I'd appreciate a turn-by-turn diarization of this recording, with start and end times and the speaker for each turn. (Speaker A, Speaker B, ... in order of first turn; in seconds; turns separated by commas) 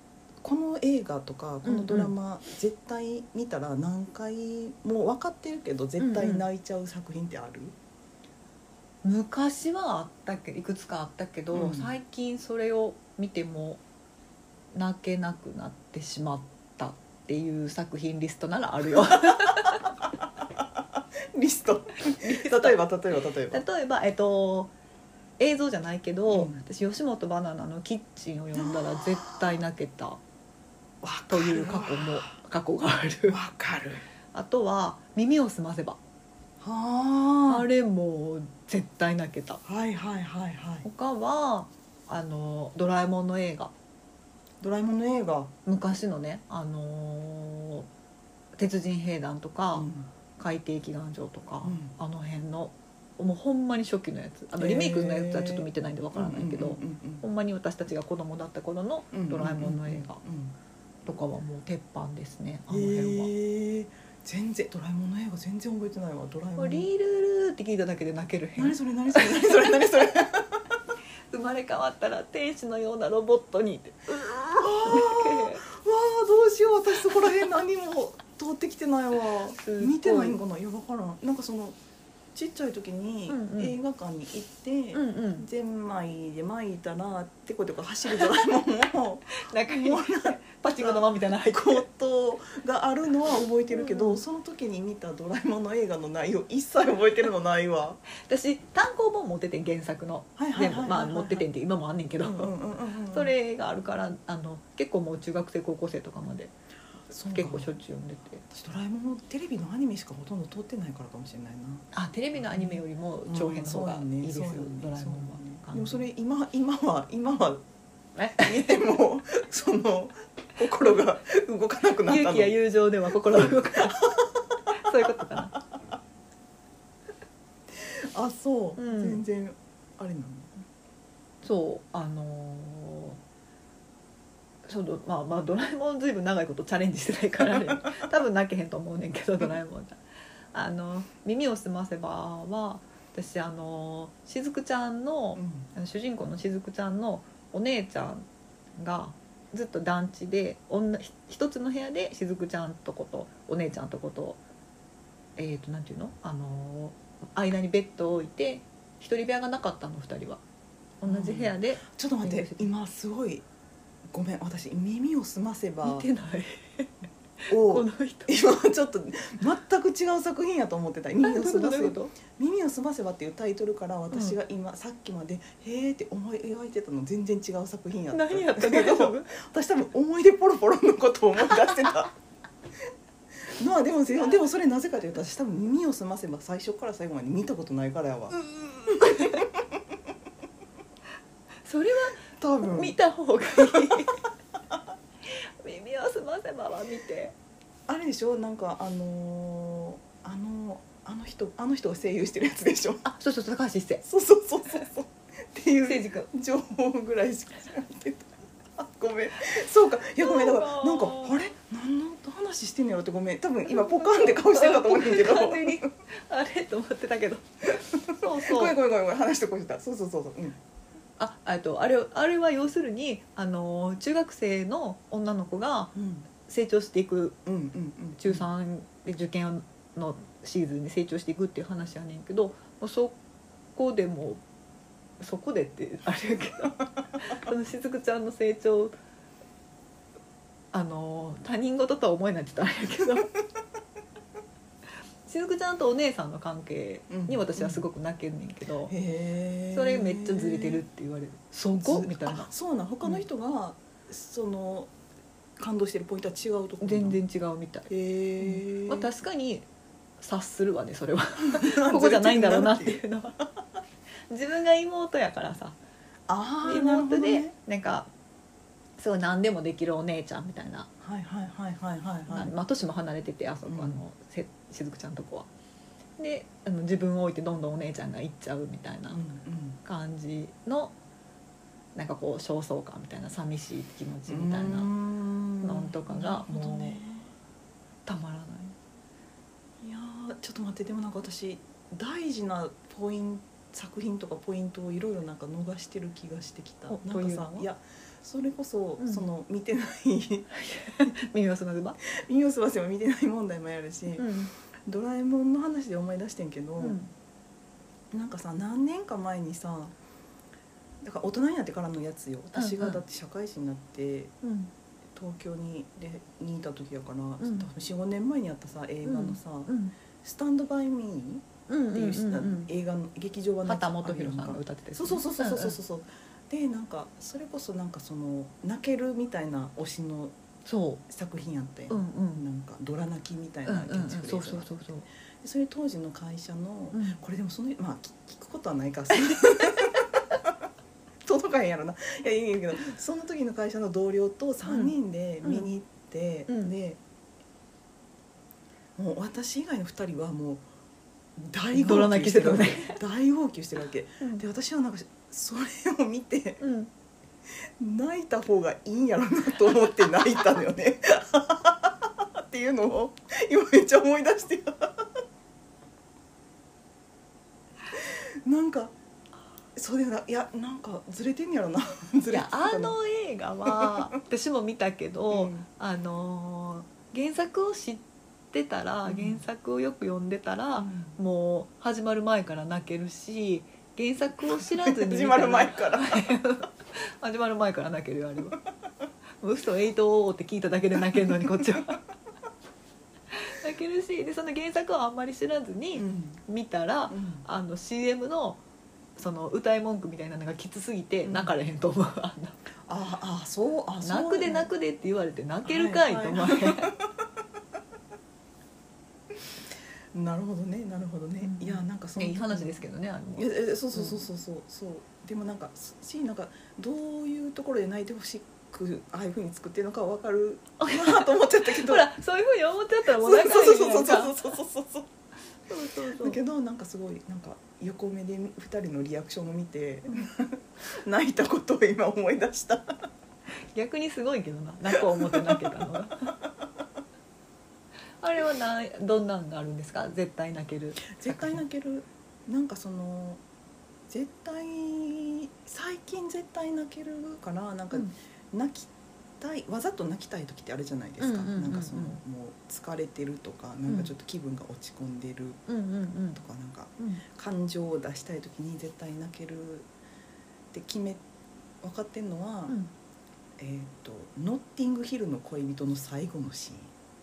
Speaker A: 0.4-7.8, Speaker B: 1.6-2.1, Speaker B: 6.0-6.5, Speaker B: 9.0-13.8, Speaker A: 11.5-11.9, Speaker B: 14.7-19.9, Speaker A: 21.4-23.6, Speaker B: 22.2-22.8, Speaker B: 23.5-24.7, Speaker B: 25.4-30.2, Speaker A: 26.3-26.6, Speaker A: 28.6-29.6, Speaker A: 31.0-32.3, Speaker B: 31.3-33.4, Speaker A: 33.3-34.0, Speaker B: 34.3-36.0, Speaker A: 36.6-37.7, Speaker B: 37.5-39.6, Speaker A: 39.6-40.9, Speaker B: 40.9-43.7, Speaker A: 44.6-45.5, Speaker B: 45.7-47.9, Speaker B: 48.6-60.2, Speaker A: 49.7-50.1, Speaker A: 51.6-52.0, Speaker A: 54.6-57.2, Speaker A: 59.1-60.5, Speaker B: 61.0-63.3, Speaker A: 62.7-66.9, Speaker B: 66.6-69.5, Speaker A: 68.6-70.8, Speaker B: 71.3-75.6, Speaker A: 74.6-81.8, Speaker B: 79.6-80.4, Speaker A: 82.3-98.0, Speaker B: 83.3-83.8, Speaker B: 84.9-85.5, Speaker B: 89.4-91.8, Speaker B: 93.7-94.2, Speaker B: 98.2-102.6, Speaker A: 100.4-101.5, Speaker A: 102.2-103.3, Speaker B: 103.1-106.5, Speaker A: 107.1-107.7, Speaker B: 107.2-108.4, Speaker A: 108.5-117.6, Speaker B: 111.9-116.0, Speaker B: 118.2-118.8, Speaker A: 118.4-122.6, Speaker B: 122.1-124.2, Speaker A: 123.3-124.0, Speaker B: 124.7-125.5, Speaker A: 127.8-130.6, Speaker B: 128.8-129.2, Speaker B: 131.4-133.2, Speaker B: 134.7-140.0, Speaker B: 140.5-154.4, Speaker A: 145.4-145.7, Speaker B: 155.4-160.4, Speaker B: 161.0-162.7, Speaker A: 161.1-163.4, Speaker A: 164.1-166.1, Speaker B: 165.8-168.3, Speaker A: 167.5-182.1, Speaker B: 171.2-172.2, Speaker B: 174.1-174.4, Speaker B: 178.1-179.4, Speaker A: 183.5-188.4, Speaker B: 188.5-189.4, Speaker A: 189.1-189.4, Speaker B: 191.6-194.2, Speaker A: 192.3-193.0, Speaker B: 195.3-197.3, Speaker A: 197.9-203.1, Speaker B: 203.1-204.0, Speaker A: 204.0-215.9, Speaker B: 205.8-206.3, Speaker B: 210.2-211.4, Speaker B: 213.7-218.7, Speaker A: 218.1-220.6, Speaker B: 221.2-225.9, Speaker A: 225.9-226.3, Speaker B: 226.4-227.4, Speaker A: 227.5-228.5, Speaker B: 228.2-233.2, Speaker B: 233.8-234.4, Speaker B: 235.2-239.0, Speaker B: 240.7-243.3, Speaker B: 245.2-248.9, Speaker A: 247.1-247.9, Speaker A: 248.9-250.8, Speaker B: 249.7-252.5, Speaker A: 251.8-254.9, Speaker A: 255.6-257.2, Speaker B: 256.8-259.7, Speaker A: 257.9-259.1, Speaker B: 260.2-263.4, Speaker A: 261.4-263.0, Speaker B: 264.3-265.8, Speaker A: 266.3-267.6, Speaker B: 266.6-268.1, Speaker B: 269.0-270.9, Speaker A: 271.0-272.5, Speaker B: 272.3-275.5, Speaker A: 273.6-274.0, Speaker B: 276.2-279.2, Speaker A: 279.1-279.8, Speaker B: 279.9-281.0, Speaker B: 281.9-284.9, Speaker A: 284.3-287.3, Speaker B: 285.6-287.0, Speaker B: 288.1-288.8, Speaker A: 289.8-300.5, Speaker B: 296.9-297.7, Speaker B: 299.0-299.3, Speaker B: 300.5-302.0, Speaker A: 302.0-304.3, Speaker B: 304.2-304.5, Speaker A: 304.9-307.0, Speaker B: 306.8-307.1, Speaker A: 308.1-310.0, Speaker A: 311.0-314.3, Speaker B: 312.6-313.0, Speaker B: 314.4-314.7, Speaker A: 315.1-330.4, Speaker B: 317.4-317.7, Speaker B: 319.1-319.9, Speaker B: 321.7-322.7, Speaker B: 323.6-325.8, Speaker B: 330.6-331.0, Speaker A: 331.1-334.7, Speaker B: 331.9-332.5, Speaker B: 333.7-335.1, Speaker A: 335.4-340.2, Speaker B: 336.9-337.2, Speaker A: 341.2-347.0, Speaker B: 344.7-345.7, Speaker B: 346.5-346.7, Speaker A: 349.0-350.6, Speaker A: 351.4-356.6, Speaker B: 351.7-353.0, Speaker B: 356.6-356.9, Speaker A: 357.8-365.1, Speaker A: 367.9-368.9, Speaker A: 369.8-373.0, Speaker B: 372.3-388.6, Speaker A: 375.3-375.7, Speaker A: 379.1-379.4, Speaker A: 380.8-381.2, Speaker A: 384.5-386.3, Speaker B: 389.4-392.0, Speaker B: 393.3-398.6, Speaker A: 395.9-396.4, Speaker A: 397.1-397.4, Speaker B: 399.2-402.6, Speaker A: 401.2-401.5, Speaker A: 402.9-404.7, Speaker B: 404.0-406.9, Speaker A: 405.6-407.1, Speaker A: 410.1-422.1, Speaker B: 411.4-414.2, Speaker B: 420.8-424.4, Speaker A: 423.1-425.1, Speaker B: 425.7-426.4, Speaker A: 426.1-433.0, Speaker B: 433.7-436.2, Speaker B: 438.2-441.6, Speaker A: 441.1-443.4, Speaker A: 444.1-455.6, Speaker B: 451.2-452.2, Speaker B: 455.7-456.4, Speaker A: 456.3-459.9, Speaker A: 460.7-461.2, Speaker A: 461.8-462.8, Speaker A: 463.6-466.9